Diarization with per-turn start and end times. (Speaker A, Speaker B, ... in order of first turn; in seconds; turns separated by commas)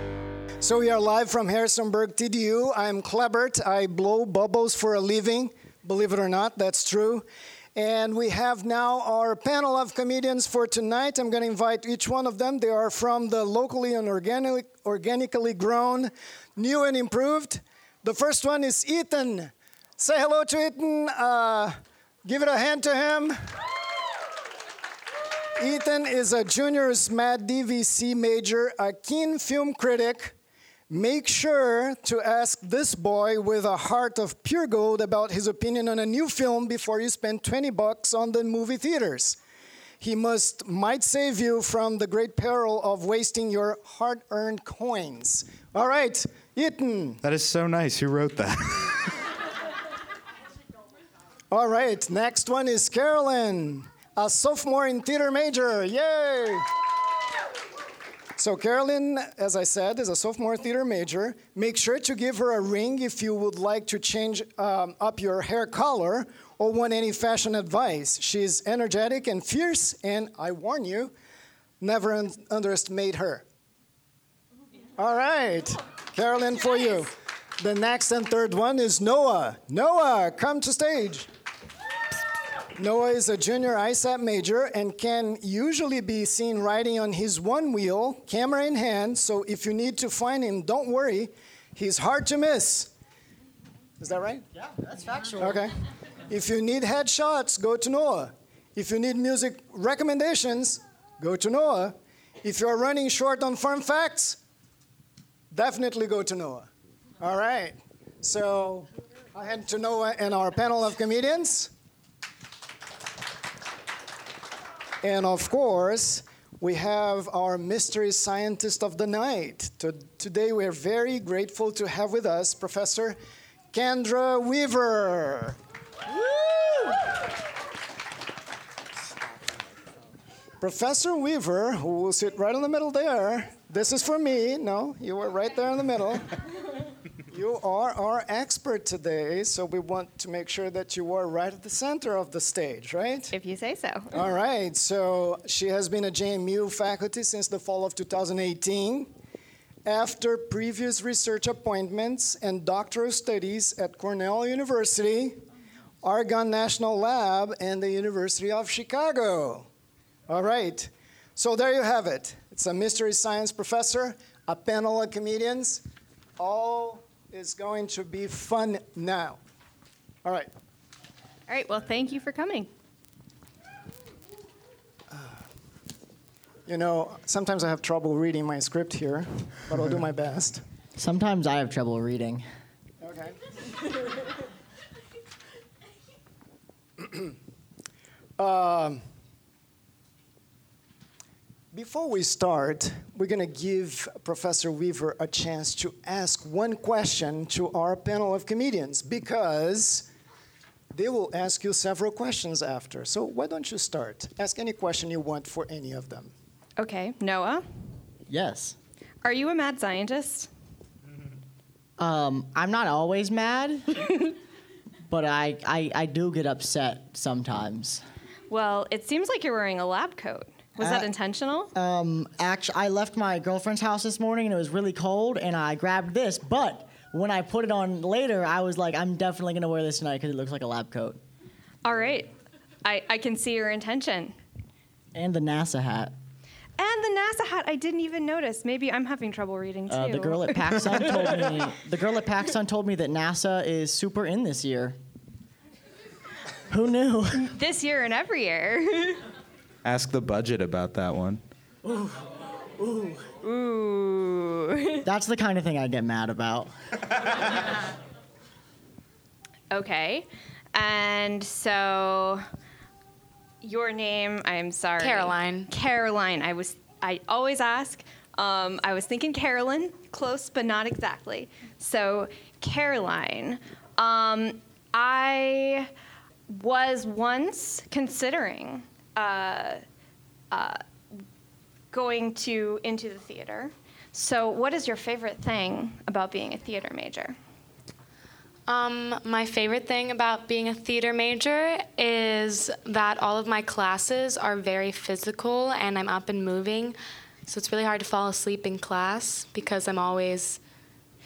Speaker A: 0.6-23.4, Speaker A: 25.6-30.4, Speaker A: 30.9-39.4, Speaker A: 40.0-47.2, Speaker B: 47.2-49.1, Speaker A: 51.5-56.7, Speaker A: 58.4-71.1, Speaker A: 71.8-73.5, Speaker A: 75.0-81.3, Speaker A: 82.8-92.9, Speaker A: 94.0-94.4, Speaker C: 94.7-95.6, Speaker A: 95.4-95.7, Speaker A: 96.3-104.4, Speaker A: 105.5-106.7, Speaker A: 107.2-111.7, Speaker A: 115.0-123.2, Speaker A: 123.7-125.6, Speaker C: 126.4-127.0, Speaker A: 130.6-136.3, Speaker A: 137.3-143.3, Speaker D: 143.3-144.1, Speaker A: 144.1-149.1, Speaker A: 149.8-155.4, Speaker A: 156.0-159.7, Speaker A: 160.3-165.8, Speaker A: 166.4-169.4, Speaker A: 170.2-170.5, Speaker D: 171.5-172.7, Speaker A: 175.1-175.4, Speaker A: 176.7-180.6, Speaker C: 181.0-182.4, Speaker A: 183.0-183.4, Speaker A: 187.0-187.3, Speaker A: 188.4-189.0, Speaker A: 191.7-200.1, Speaker A: 200.9-206.3, Speaker D: 206.8-207.6, Speaker C: 208.3-208.8, Speaker D: 209.2-210.5, Speaker C: 212.0-214.3, Speaker C: 215.1-218.0, Speaker D: 218.5-221.7, Speaker C: 220.8-221.1, Speaker C: 221.7-231.2, Speaker D: 231.8-232.3, Speaker D: 232.8-234.3, Speaker C: 235.2-236.2, Speaker D: 236.8-241.3, Speaker C: 239.9-245.0, Speaker C: 246.7-247.5, Speaker D: 247.4-249.2, Speaker B: 249.8-251.4, Speaker C: 251.9-252.1, Speaker D: 253.4-255.1, Speaker C: 255.0-256.7, Speaker D: 259.7-262.4, Speaker D: 263.6-275.9, Speaker E: 265.0-265.7, Speaker D: 276.5-279.8, Speaker D: 280.5-280.8, Speaker D: 281.9-287.4, Speaker E: 288.7-300.6